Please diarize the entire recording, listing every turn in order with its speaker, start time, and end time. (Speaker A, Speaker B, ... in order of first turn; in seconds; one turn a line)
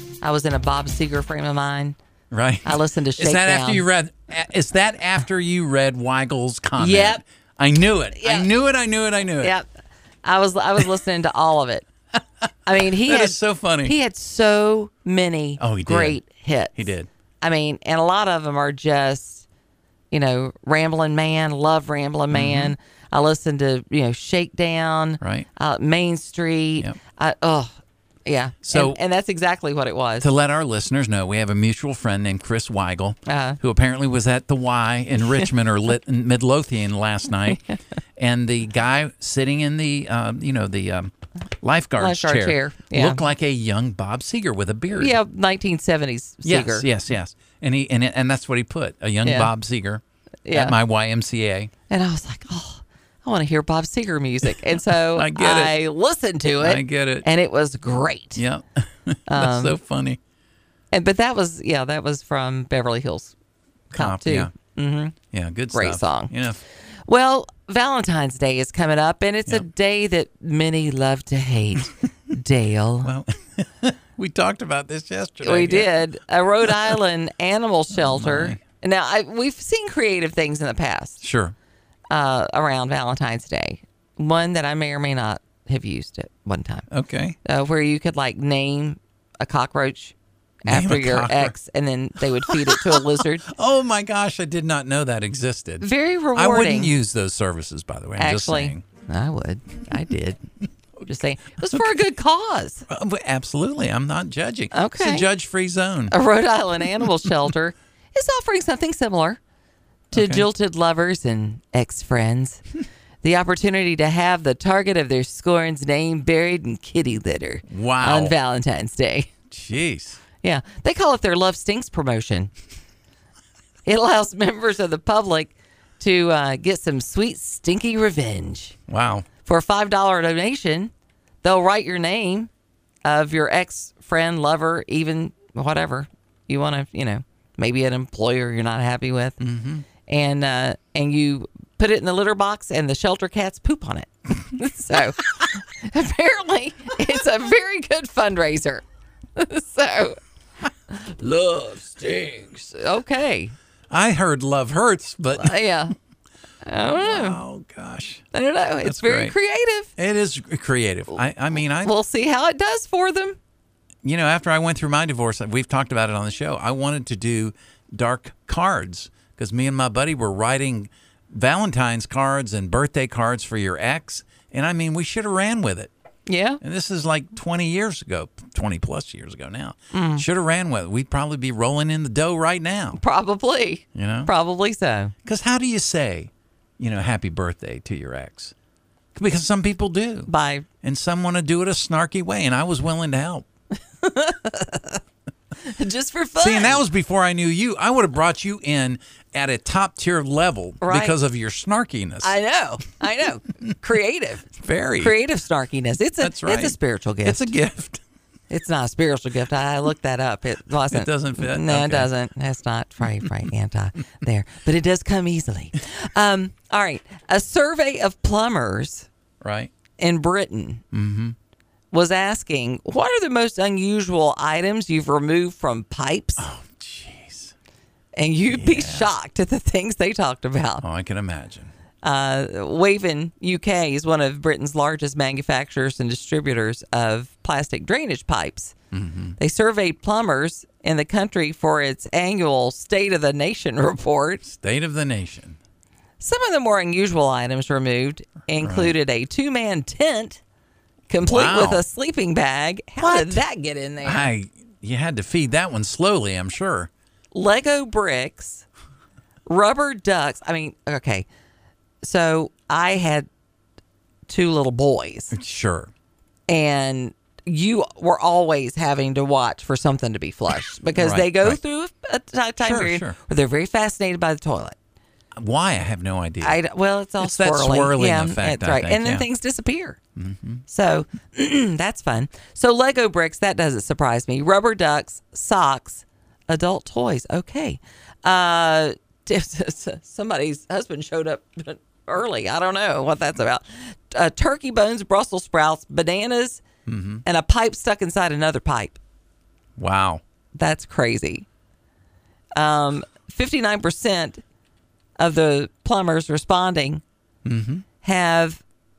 Speaker A: 0.2-2.0
Speaker B: 2.3-9.6
Speaker A: 2.6-3.9
Speaker A: 6.8-7.2
Speaker A: 8.1-8.5
Speaker A: 9.4-9.7
Speaker A: 10.2-11.9
Speaker A: 12.7-16.9
Speaker B: 12.8-13.9
Speaker B: 15.6-16.2
Speaker B: 16.8-17.1
Speaker A: 17.4-19.4
Speaker A: 20.1-27.7
Speaker B: 22.3-22.8
Speaker B: 25.2-25.5
Speaker A: 28.3-30.3
Speaker B: 28.6-29.0
Speaker B: 30.2-37.6
Speaker A: 33.3-33.6
Speaker B: 38.2-45.2
Speaker A: 42.0-43.2
Speaker A: 44.9-46.9
Speaker B: 46.5-51.7
Speaker A: 49.2-49.5
Speaker A: 50.5-50.8
Speaker A: 51.9-58.4
Speaker B: 54.9-55.8
Speaker B: 56.6-57.3
Speaker B: 58.4-60.2
Speaker A: 59.3-59.8
Speaker A: 60.9-63.4
Speaker B: 63.9-64.5
Speaker A: 63.9-65.2
Speaker B: 65.3-66.6
Speaker A: 65.7-66.3
Speaker A: 67.1-73.1
Speaker B: 73.0-76.0
Speaker A: 75.4-81.2
Speaker B: 77.9-78.6
Speaker B: 81.2-81.5
Speaker A: 82.1-86.9
Speaker B: 86.9-87.4
Speaker A: 87.4-93.5
Speaker B: 90.7-91.5
Speaker B: 92.4-98.8
Speaker A: 95.8-96.9
Speaker A: 98.2-100.4
Speaker A: 101.1-102.9
Speaker B: 101.7-102.0
Speaker B: 102.9-106.2
Speaker A: 104.7-105.3
Speaker A: 106.1-109.4
Speaker B: 110.1-110.5
Speaker A: 110.1-112.6
Speaker A: 113.2-119.3
Speaker B: 117.7-118.3
Speaker B: 119.5-120.2
Speaker A: 120.4-122.5
Speaker A: 123.9-128.8
Speaker B: 128.9-129.3
Speaker A: 129.4-130.9
Speaker A: 131.4-132.5
Speaker A: 133.1-139.4
Speaker B: 139.4-139.8
Speaker A: 140.1-148.8
Speaker A: 149.4-150.2
Speaker A: 150.9-153.5
Speaker B: 151.8-152.2
Speaker B: 153.9-155.6
Speaker A: 155.4-155.9
Speaker A: 156.6-157.4
Speaker B: 156.8-158.2
Speaker A: 158.3-159.9
Speaker B: 158.8-159.3
Speaker B: 160.0-161.9
Speaker A: 161.8-163.4
Speaker B: 164.0-175.9
Speaker A: 176.3-176.6
Speaker B: 176.6-183.0
Speaker A: 179.9-180.2
Speaker A: 183.0-185.1
Speaker B: 183.9-184.3
Speaker B: 185.2-188.5
Speaker B: 189.1-190.3
Speaker A: 190.3-190.7
Speaker B: 190.8-193.4
Speaker A: 194.0-195.0
Speaker A: 195.6-196.8
Speaker B: 196.4-202.3
Speaker A: 200.8-201.2
Speaker A: 202.2-207.4
Speaker B: 204.5-205.2
Speaker B: 206.2-208.0
Speaker A: 208.5-219.1
Speaker B: 210.9-212.1
Speaker B: 219.4-219.7
Speaker A: 220.0-220.8
Speaker B: 220.9-221.4
Speaker A: 221.9-226.5
Speaker B: 226.4-227.5
Speaker A: 228.2-230.8
Speaker B: 228.5-229.1
Speaker B: 230.8-231.7
Speaker A: 232.0-238.7
Speaker B: 238.9-239.4
Speaker A: 239.4-244.4
Speaker B: 244.4-245.6
Speaker A: 246.2-250.4
Speaker B: 248.6-248.9
Speaker A: 251.1-254.3
Speaker B: 251.2-251.9
Speaker B: 253.0-253.4
Speaker B: 254.0-256.9
Speaker A: 257.3-258.6
Speaker A: 259.5-261.3
Speaker A: 262.0-263.3
Speaker A: 264.3-265.3
Speaker B: 265.3-265.9
Speaker A: 266.5-274.8
Speaker B: 271.0-271.6
Speaker B: 272.6-273.2
Speaker B: 275.4-276.6
Speaker A: 276.4-280.0
Speaker B: 277.2-279.3
Speaker B: 280.2-280.6
Speaker A: 280.7-296.6
Speaker B: 296.9-297.2
Speaker A: 297.2-299.0
Speaker B: 299.8-300.2
Speaker A: 300.6-301.5
Speaker A: 302.6-304.4
Speaker A: 305.2-307.0
Speaker B: 307.4-307.9
Speaker A: 308.0-308.6